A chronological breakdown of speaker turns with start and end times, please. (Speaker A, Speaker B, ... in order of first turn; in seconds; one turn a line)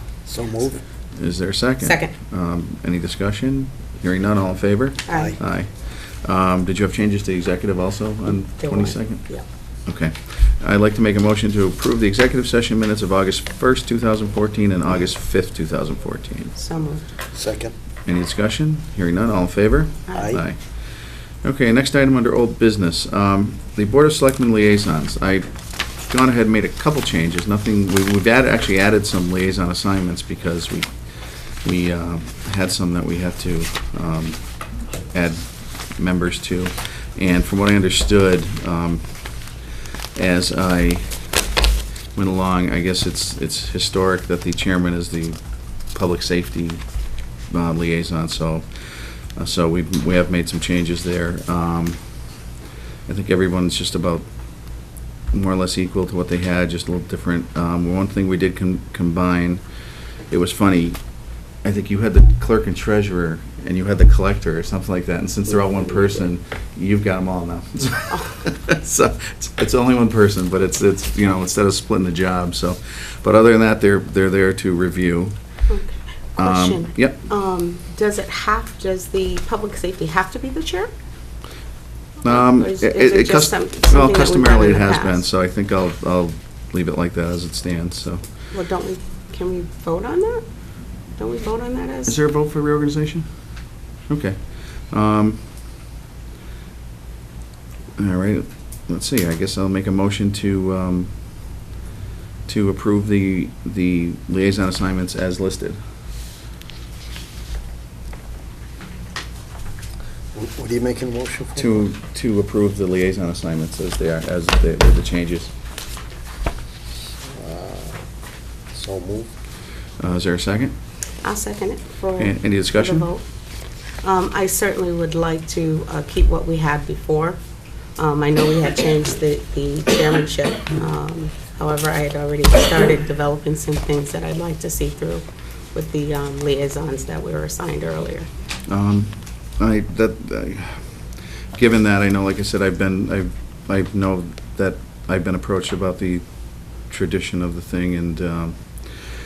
Speaker A: 0.2-0.8
Speaker B: 1.1-9.3
Speaker C: 1.8-2.1
Speaker C: 5.1-5.3
Speaker A: 5.1-5.4
Speaker C: 8.6-9.4
Speaker B: 9.8-16.5
Speaker C: 16.6-17.0
Speaker A: 17.3-17.7
Speaker B: 18.1-20.6
Speaker C: 20.1-20.4
Speaker A: 20.1-20.4
Speaker B: 21.4-25.5
Speaker B: 26.1-30.9
Speaker B: 31.6-34.5
Speaker B: 35.1-39.4
Speaker B: 40.1-41.1
Speaker B: 42.1-45.4
Speaker B: 45.9-46.8
Speaker B: 47.5-52.0
Speaker B: 53.0-54.2
Speaker B: 55.3-59.6
Speaker B: 60.3-61.0
Speaker B: 61.6-75.3
Speaker C: 75.7-80.9
Speaker B: 76.4-77.2
Speaker C: 82.2-85.2
Speaker B: 82.2-88.2
Speaker C: 88.5-90.4
Speaker C: 91.2-92.2
Speaker B: 92.0-93.2
Speaker B: 94.1-95.4
Speaker B: 98.0-101.1
Speaker B: 102.5-105.8
Speaker A: 110.3-111.8
Speaker B: 111.5-115.5
Speaker A: 117.2-118.0
Speaker A: 118.7-119.3
Speaker B: 120.0-120.7
Speaker C: 121.2-123.2
Speaker B: 122.2-123.1
Speaker C: 124.0-127.4
Speaker C: 128.0-138.3
Speaker B: 138.7-140.8
Speaker B: 141.6-149.0